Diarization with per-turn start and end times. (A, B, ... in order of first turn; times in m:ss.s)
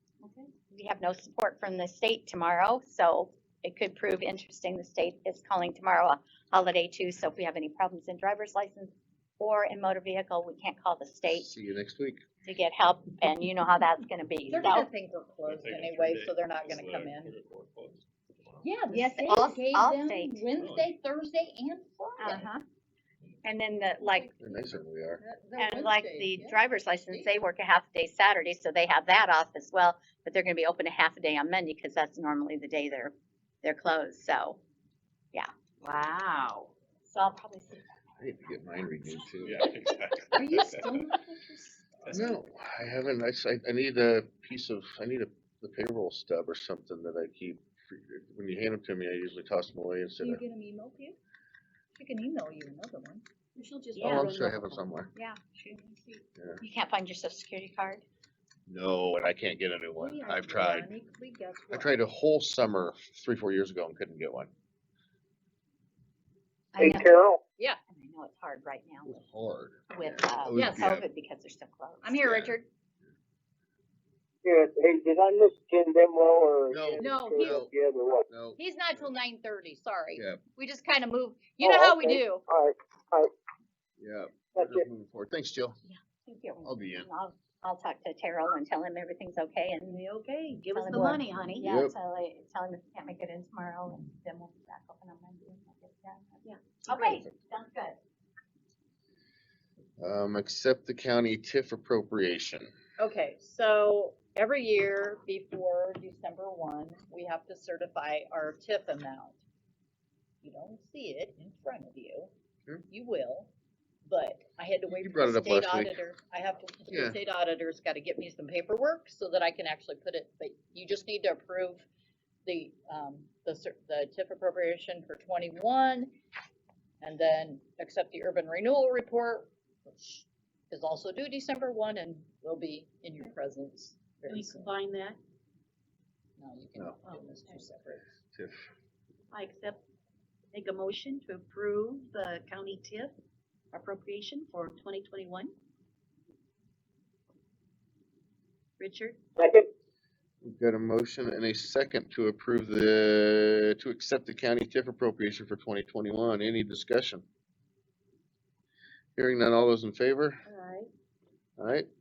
0:00.2-0:11.5 A
0:11.3-0:12.2 B
0:12.4-0:14.9 A
0:14.5-0:17.4 C
0:15.4-0:18.6 D
0:18.6-0:22.5 C
0:18.9-0:20.4 A
0:20.6-0:20.9 D
0:22.2-0:22.6 A
0:23.4-0:24.3 A
0:24.4-0:25.2 B
0:25.2-0:27.3 C
0:25.6-0:34.6 A
0:35.8-0:36.7 C
0:37.0-0:37.8 A
0:38.2-0:39.7 B
0:39.4-0:41.2 D
0:40.3-0:41.8 C
0:42.0-0:42.3 D
0:42.1-0:50.4 B
0:50.2-0:51.2 C
0:52.0-0:53.2 C
0:53.6-0:54.8 E
0:53.9-0:54.3 A
0:54.0-0:55.1 B
0:55.1-0:55.4 A
0:56.4-0:56.6 B
0:56.6-0:58.0 A
0:58.7-1:00.9 B
1:00.0-1:01.9 C
1:01.7-1:04.5 B
1:06.7-1:07.0 A
1:06.8-1:07.4 F
1:07.9-1:09.2 A
1:09.0-1:11.0 B
1:09.9-1:12.3 A
1:10.5-1:10.8 C
1:12.0-1:12.6 C
1:12.1-1:12.6 B
1:14.4-1:18.2 F
1:16.7-1:17.7 B
1:17.0-1:17.6 C
1:18.3-1:19.1 B
1:18.6-1:22.4 C
1:20.2-1:20.4 B
1:21.6-1:23.3 F
1:24.0-1:25.8 B
1:24.6-1:24.8 F
1:25.8-1:30.0 A
1:26.6-1:27.1 B
1:29.8-1:31.7 E
1:30.7-1:38.0 A
1:31.6-1:31.9 B
1:36.9-1:37.3 B
1:40.0-1:42.7 B
1:43.0-1:49.4 C
1:50.4-1:52.3 C
1:52.9-1:53.5 C
1:54.0-2:01.8 C
1:54.9-1:56.0 B
1:56.9-1:57.2 B
2:02.4-2:06.1 C
2:07.0-2:14.7 C
2:14.3-2:15.2 E
2:16.4-2:18.0 C
2:17.0-2:17.4 E
2:18.3-2:18.7 B
2:19.3-2:19.8 E
2:20.5-2:23.1 E
2:23.7-2:25.5 E
2:28.8-2:29.2 E
2:29.4-2:29.7 F
2:30.4-2:37.2 B
2:39.2-2:40.4 B
2:40.5-2:40.9 E
2:41.6-2:41.9 B